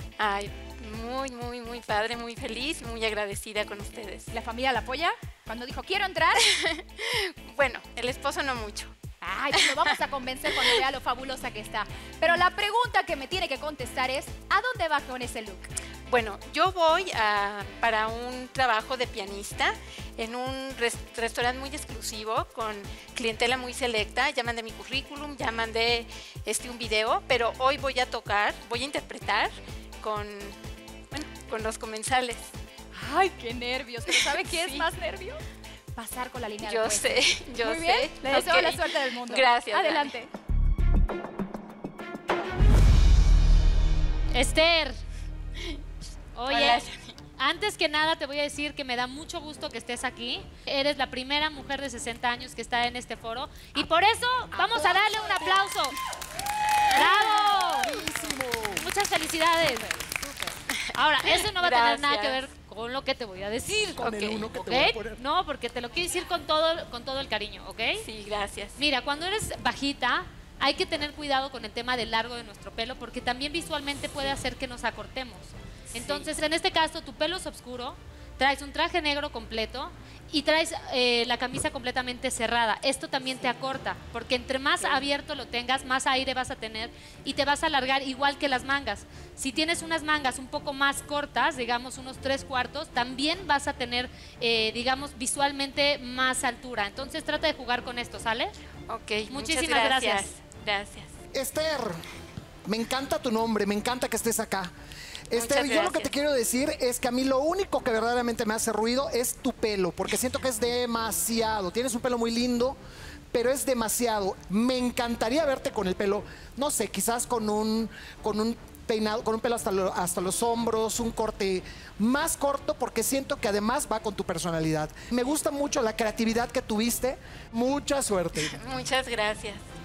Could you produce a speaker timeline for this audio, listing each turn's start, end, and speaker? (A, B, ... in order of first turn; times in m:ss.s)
0:00.2-0:04.3 A
0:04.3-0:06.5 B
0:06.4-0:08.9 A
0:09.2-0:15.7 B
0:16.1-0:30.6 A
0:31.1-0:32.5 A
0:32.9-0:35.4 B
0:34.1-0:34.8 A
0:36.0-0:40.3 B
0:36.6-0:40.1 A
0:44.3-0:45.0 C
0:46.3-0:46.8 C
0:46.5-0:47.1 A
0:47.4-0:56.0 C
0:54.7-0:55.5 A
0:56.9-0:58.0 C
0:57.6-0:58.8 D
0:58.8-1:00.4 C
1:00.9-1:08.0 C
1:01.2-1:02.4 A
1:03.7-1:05.2 D
1:08.0-1:08.8 A
1:08.8-1:38.5 C
1:15.9-1:16.3 A
1:38.9-1:41.1 A
1:39.3-1:40.3 C
1:41.3-1:42.0 D
1:42.6-1:44.7 D
1:45.3-1:52.8 D
1:45.3-1:46.1 A
1:53.3-2:08.5 D
2:08.5-2:09.6 A